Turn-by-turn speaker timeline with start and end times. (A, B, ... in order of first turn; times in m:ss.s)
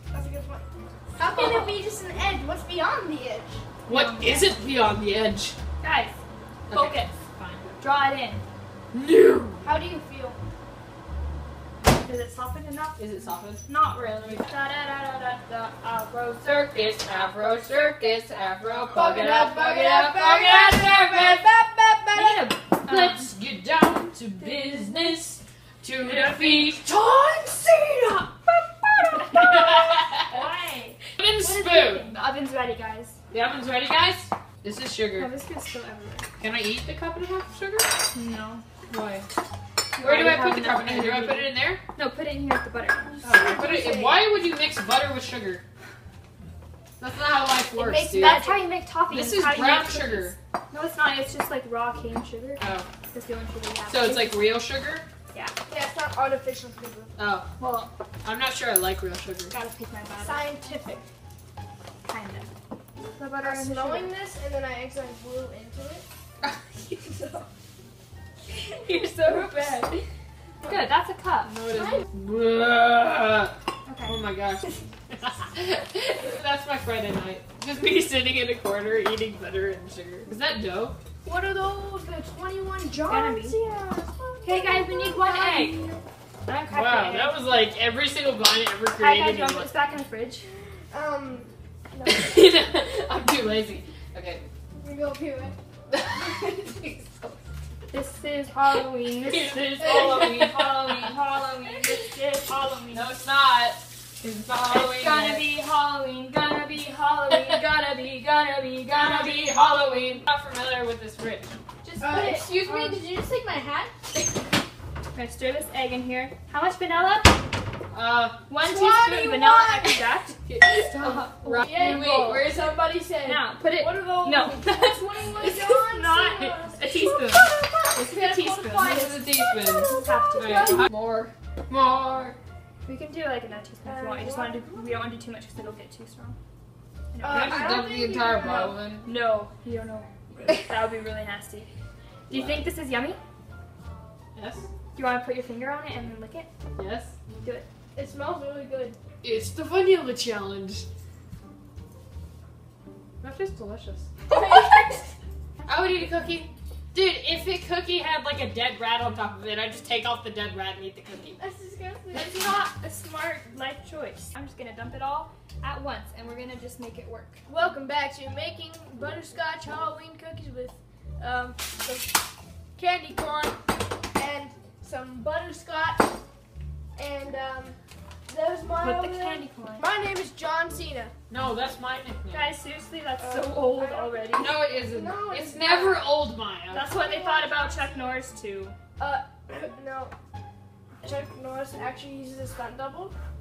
0:00.1-0:03.6 A
0:01.2-0:01.8 B
0:03.9-0:04.6 B
0:03.9-0:05.6 C
0:05.8-0:06.2 B
0:06.7-0:07.7 C
0:06.7-0:07.1 B
0:07.8-0:08.4 B
0:08.9-0:09.7 C
0:09.6-0:10.4 A
0:11.9-0:13.0 B
0:13.0-0:13.6 C
0:13.7-0:16.6 B
0:14.2-0:14.5 C
0:16.4-0:21.5 C
0:18.9-0:22.4 A
0:22.1-0:23.3 B
0:22.8-0:30.3 C
0:26.0-0:26.8 B
0:29.1-0:33.2 B
0:31.2-0:32.1 C
0:33.3-0:35.3 C
0:35.2-0:36.3 B
0:36.4-0:37.9 C
0:38.1-0:38.6 B
0:38.9-0:39.3 C
0:39.9-0:43.2 B
0:40.0-0:41.8 C
0:43.2-0:44.3 A
0:43.2-0:45.6 C
0:47.0-0:48.4 C
0:47.7-0:48.6 A
0:48.2-0:54.6 B
0:49.1-0:50.4 C
0:52.6-0:52.9 C
0:53.9-0:55.1 C
0:55.7-0:57.2 A
0:57.2-0:57.5 C
0:57.6-0:57.9 B
0:58.2-0:59.5 C
0:59.5-1:00.5 B
1:00.2-1:01.1 A
1:02.1-1:02.5 B
1:03.1-1:04.1 B
1:03.4-1:06.0 A
1:07.2-1:07.4 A
1:08.6-1:10.0 B
1:09.2-1:09.9 A
1:10.7-1:11.5 B
1:11.4-1:13.6 C
1:11.7-1:12.0 A
1:13.9-1:14.2 B
1:14.1-1:21.0 C
1:21.2-1:26.0 A
1:23.1-1:23.6 B
1:24.4-1:25.8 B
1:26.5-1:27.4 B
1:26.7-1:29.7 C
1:28.9-1:30.5 B
1:30.9-1:32.3 A
1:32.1-1:34.4 C
1:34.8-1:35.6 A
1:35.9-1:37.4 C
1:37.9-1:43.1 B
1:39.2-1:41.1 C
1:40.0-1:40.3 A
1:42.9-1:45.5 C
1:44.7-1:49.5 B
1:47.3-1:47.6 C
1:48.9-1:51.5 C
1:51.8-1:53.0 B
1:52.0-1:54.3 A
1:55.1-1:57.4 B
1:57.9-1:58.5 C
1:58.5-2:00.4 B
1:58.6-2:00.1 A
2:00.5-2:02.6 C
2:01.0-2:02.2 B
2:01.0-2:10.9 A
2:03.2-2:09.2 B
2:08.7-2:12.4 C
2:09.9-2:10.8 B
2:12.9-2:16.4 B
2:13.8-2:15.0 A
2:17.1-2:17.8 B
2:17.2-2:18.8 A
2:17.2-2:19.1 C
2:18.4-2:21.7 B
2:22.3-2:23.2 B
2:24.4-2:24.7 C
2:25.0-2:26.5 B
2:26.8-2:27.1 C
2:28.0-2:29.0 A
2:29.2-2:30.9 C
2:33.2-2:34.1 C
2:34.3-2:35.1 A
2:35.6-2:41.4 C
2:41.4-2:42.5 A
2:42.1-2:47.4 B
2:47.5-2:52.2 A
2:52.8-2:53.6 A
2:54.2-2:56.1 A
2:57.0-2:57.8 A
2:58.3-3:01.1 A
2:58.8-2:59.9 B
3:01.3-3:02.5 C
3:02.3-3:04.5 B
3:03.2-3:06.1 A
3:04.4-3:06.9 C
3:06.7-3:08.8 B
3:06.8-3:08.1 A
3:09.0-3:10.1 A
3:11.0-3:13.1 A